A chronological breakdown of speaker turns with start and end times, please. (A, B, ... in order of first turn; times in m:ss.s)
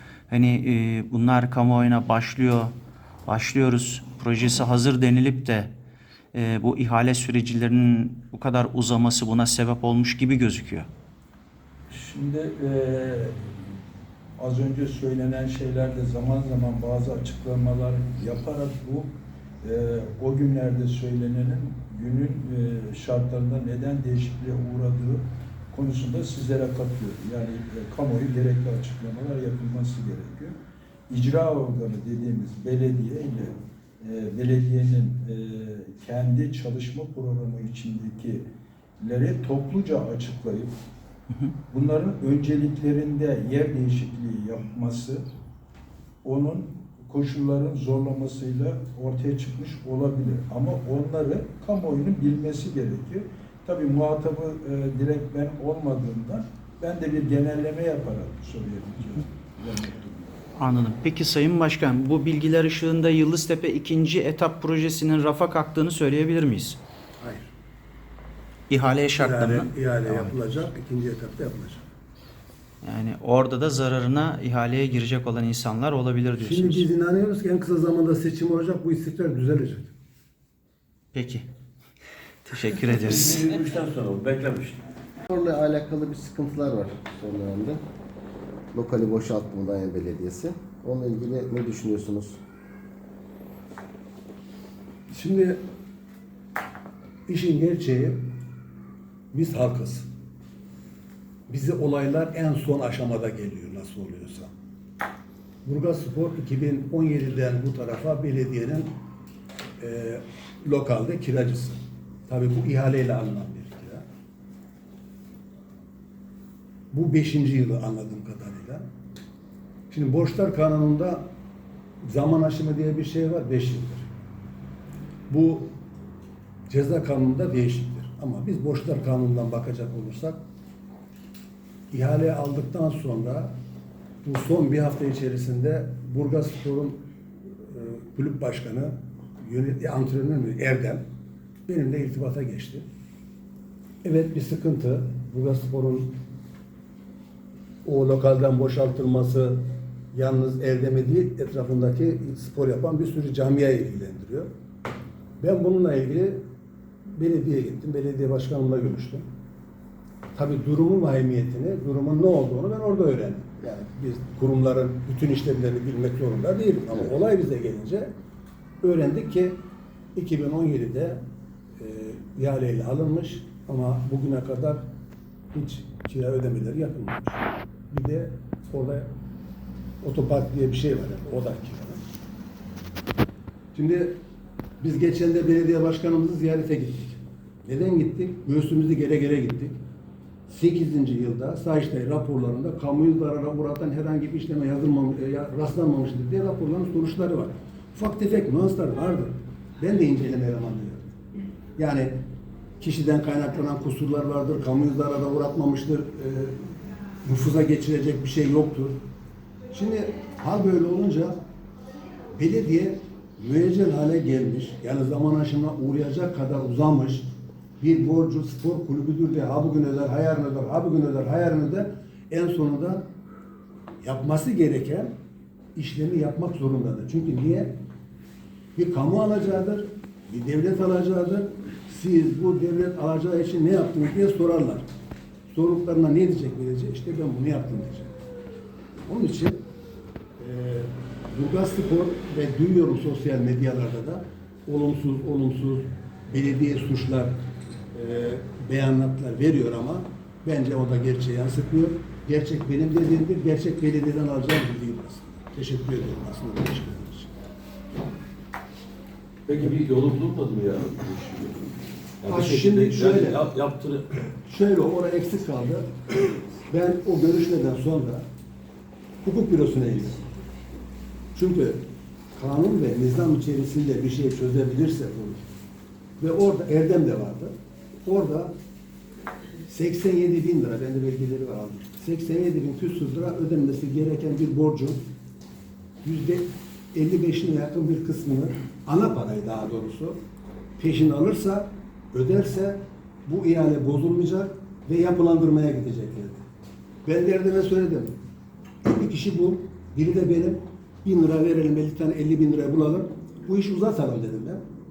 0:00.3-0:02.7 A
0:03.3-0:05.7 A
0:06.3-0:10.9 A
0:11.9-0:13.6 B
0:14.4-0:30.6 B
0:31.1-0:38.5 B
0:39.0-0:40.8 B
0:41.7-0:45.2 B
0:46.2-1:00.5 B
1:00.6-1:06.8 A
1:07.2-1:07.5 C
1:08.7-1:10.3 A
1:09.2-1:11.9 C
1:12.8-1:16.8 A
1:16.4-1:19.9 C
1:21.1-1:21.4 A
1:22.4-1:23.5 A
1:22.9-1:24.8 D
1:25.3-1:27.8 E
1:28.7-1:32.4 E
1:35.1-1:35.6 C
1:37.3-1:38.2 C
1:39.3-1:40.1 C
1:41.5-1:44.5 C
1:45.6-1:48.9 C
1:49.8-1:54.0 C
1:56.9-1:58.8 C
1:59.9-2:01.3 C
2:02.0-2:04.1 C
2:05.3-2:05.7 C
2:06.7-2:10.4 C
2:11.9-2:13.6 C
2:14.2-2:17.0 C
2:17.6-2:21.0 C
2:21.7-2:22.9 C
2:24.0-2:26.2 C
2:27.8-2:34.5 C
2:35.4-2:36.4 C
2:37.0-2:39.2 C
2:40.3-2:48.1 C
2:48.8-2:49.6 C
2:50.1-2:51.2 C
2:51.8-2:54.8 C
2:55.5-2:59.1 C
3:00.0-3:02.0 C
3:03.7-3:04.2 C
3:04.8-3:09.8 C
3:10.5-3:21.2 C
3:21.8-3:22.2 C
3:22.8-3:29.0 C
3:29.7-3:31.4 C
3:32.3-3:37.3 C
3:37.8-3:43.1 C
3:44.0-3:45.1 C
3:45.7-3:47.7 C
3:48.8-3:54.9 C
3:55.5-3:58.2 C
3:59.0-3:59.6 C
4:00.4-4:07.3 C
4:07.9-4:17.4 C
4:19.5-4:21.6 D
4:22.2-4:24.1 D
4:22.2-4:23.4 C
4:24.5-4:25.9 C
4:26.7-4:28.3 C
4:29.2-4:30.2 C
4:31.3-4:35.5 C
4:36.2-4:37.5 C
4:38.0-4:38.5 C
4:39.7-4:45.0 C
4:46.0-4:50.2 C
4:50.8-4:56.4 C
4:57.0-4:58.1 C
4:58.8-5:04.6 C